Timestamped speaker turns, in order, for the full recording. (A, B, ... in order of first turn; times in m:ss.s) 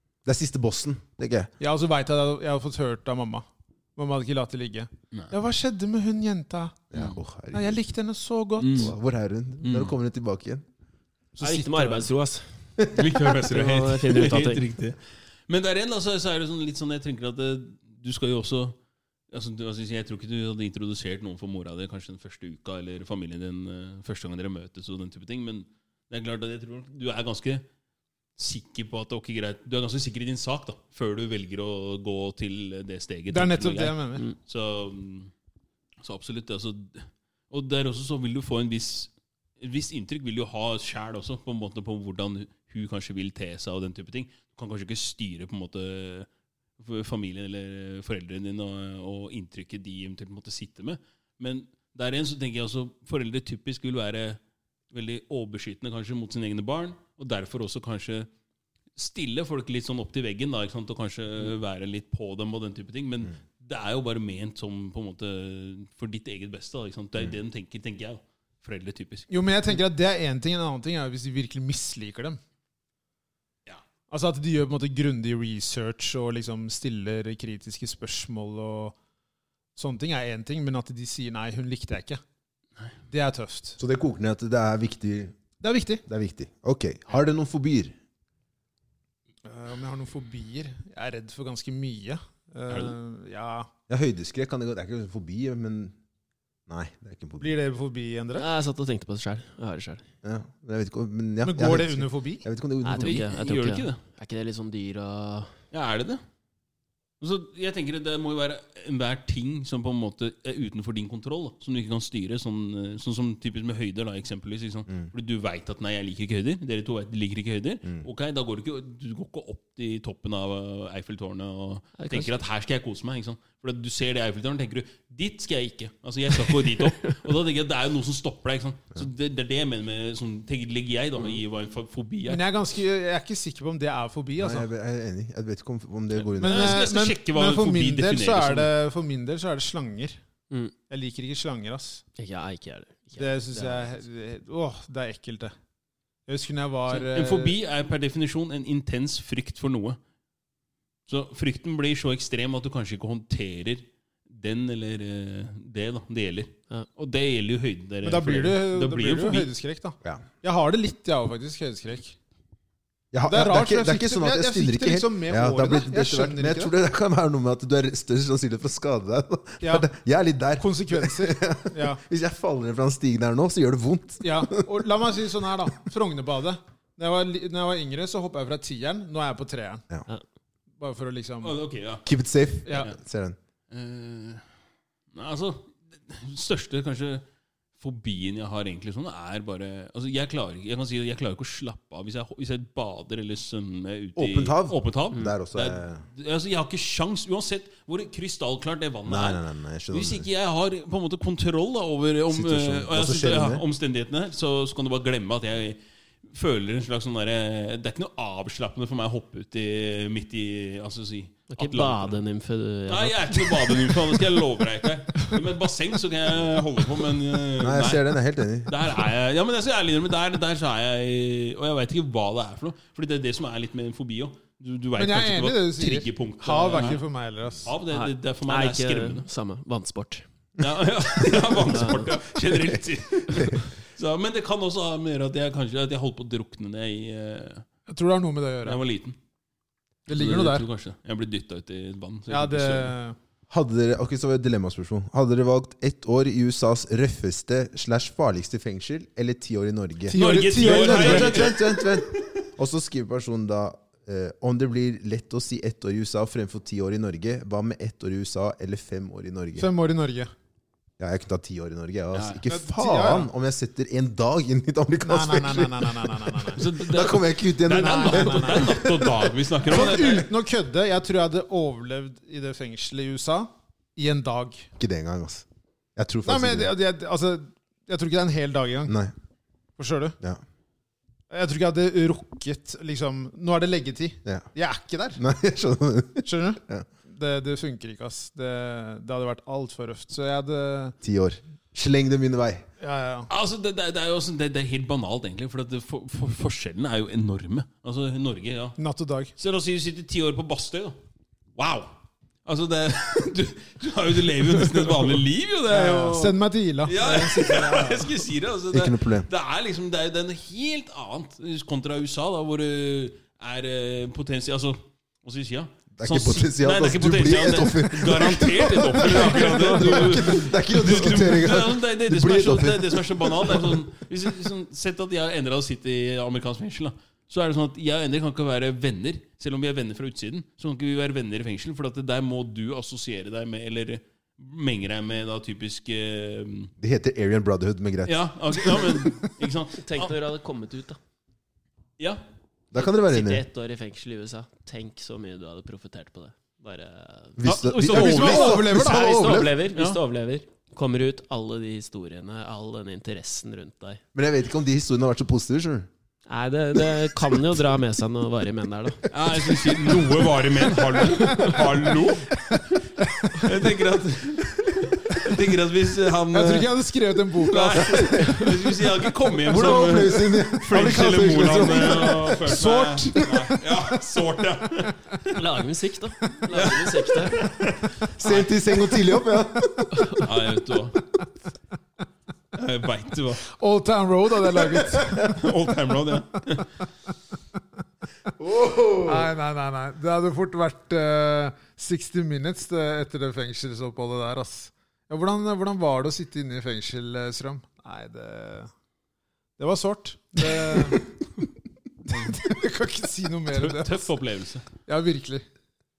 0:00.2-0:01.5 A
0:01.6-0:06.9 B
0:06.9-0:07.8 A
0:07.5-0:08.9 B
0:08.6-0:08.9 C
0:08.7-0:10.7 A
0:09.6-0:10.0 C
0:11.4-0:12.1 B
0:11.4-0:12.6 D
0:12.9-0:18.8 C
0:13.4-0:14.7 D
0:19.3-0:27.6 C
0:28.4-0:35.3 C
0:33.3-0:34.2 B
0:36.0-0:46.3 C
0:46.8-0:54.4 C
0:54.9-0:58.3 C
0:59.0-1:09.8 C
1:09.3-1:12.4 B
1:14.1-1:19.0 B
1:19.8-1:22.2 B
1:23.1-1:23.8 B
1:23.8-1:25.4 A
1:25.6-1:26.0 B
1:26.1-1:28.0 A
1:29.4-1:33.7 B
1:32.7-1:33.0 C
1:33.9-1:36.0 A
1:36.7-1:37.5 A
1:37.4-1:38.5 B
1:38.4-1:40.0 D
1:40.2-1:43.3 A
1:41.4-1:42.5 B
1:42.8-1:45.6 D
1:43.0-1:44.0 C
1:45.7-1:46.2 C
1:47.2-2:12.4 C
2:02.0-2:02.3 D
2:06.4-2:07.2 D
2:12.3-2:14.7 B
2:14.4-2:16.9 A
2:16.2-2:18.7 C
2:16.4-2:20.2 B
2:20.9-2:22.0 B
2:22.2-2:24.0 D
2:23.2-2:25.5 B
2:26.3-2:27.6 B
2:26.9-2:30.0 C
2:31.1-2:39.5 C
2:38.0-2:42.2 B
2:43.1-2:54.9 A
2:43.3-2:46.7 B
2:49.6-2:49.9 B
2:50.6-2:52.0 B
2:54.2-2:59.8 B
3:00.8-3:01.6 B
3:01.4-3:02.0 C
3:02.0-3:03.4 A
3:02.7-3:02.9 B
3:03.7-3:04.5 C
3:05.1-3:07.2 C
3:07.8-3:32.2 C
3:14.2-3:16.0 A
3:19.1-3:20.3 A
3:22.3-3:23.6 A
3:31.5-3:34.2 D
3:32.9-3:38.1 C
3:37.6-3:39.0 A
3:38.6-3:47.0 C
3:45.0-3:47.7 B
3:47.6-3:49.2 C
3:47.9-3:50.2 D
3:50.6-3:57.6 C
3:51.6-3:52.1 D
3:52.5-3:53.6 A
3:57.9-3:58.8 B
3:58.6-3:59.2 C
4:00.1-4:00.7 B
4:00.1-4:03.0 C
4:02.3-4:03.2 B
4:03.5-4:19.7 A
4:10.1-4:11.6 B
4:10.1-4:12.3 C
4:19.6-4:20.3 B
4:21.0-4:29.4 A
4:22.1-4:22.4 C
4:22.5-4:23.3 B
4:25.0-4:26.6 B
4:26.6-4:30.3 C
4:27.7-4:28.8 B
4:29.6-4:34.7 B
4:34.8-4:36.7 A
4:36.2-4:39.0 B
4:38.9-4:39.1 A
4:39.8-4:40.2 B
4:41.3-4:45.2 B
4:45.2-4:46.8 A
4:46.2-4:51.0 B
4:51.0-4:52.7 A
4:52.8-4:53.3 B
4:53.3-4:58.8 C
4:58.8-4:59.3 B
4:59.4-5:01.0 C
5:01.6-5:01.9 C
5:02.4-5:36.7 C
5:05.7-5:08.2 B
5:08.7-5:09.3 A
5:16.0-5:23.8 A
5:36.8-5:38.2 A
5:38.1-5:40.2 C
5:39.8-5:41.0 D
5:42.7-5:43.4 A
5:42.8-5:47.4 D
5:47.4-5:49.5 A
5:47.4-5:48.8 C
5:47.8-5:49.4 B
5:48.3-5:54.0 D
5:49.7-5:50.0 C
5:54.1-5:55.9 A
5:56.3-5:59.0 D
5:59.1-6:02.3 C
6:01.0-6:01.7 D
6:01.1-6:01.7 B
6:03.0-6:03.7 B
6:03.4-6:06.8 C
6:06.3-6:08.7 B
6:07.3-6:15.0 C
6:09.4-6:12.5 A
6:11.2-6:14.0 B
6:15.3-6:17.4 D
6:16.5-6:17.9 C
6:18.2-6:20.3 A
6:20.2-6:21.0 C
6:22.5-6:23.4 C
6:23.5-6:25.4 B
6:25.2-6:26.7 C
6:28.4-6:29.3 A
6:29.0-6:38.7 B
6:39.6-6:41.2 B
6:42.1-6:44.1 B
6:43.5-6:44.6 C
6:44.9-6:45.4 B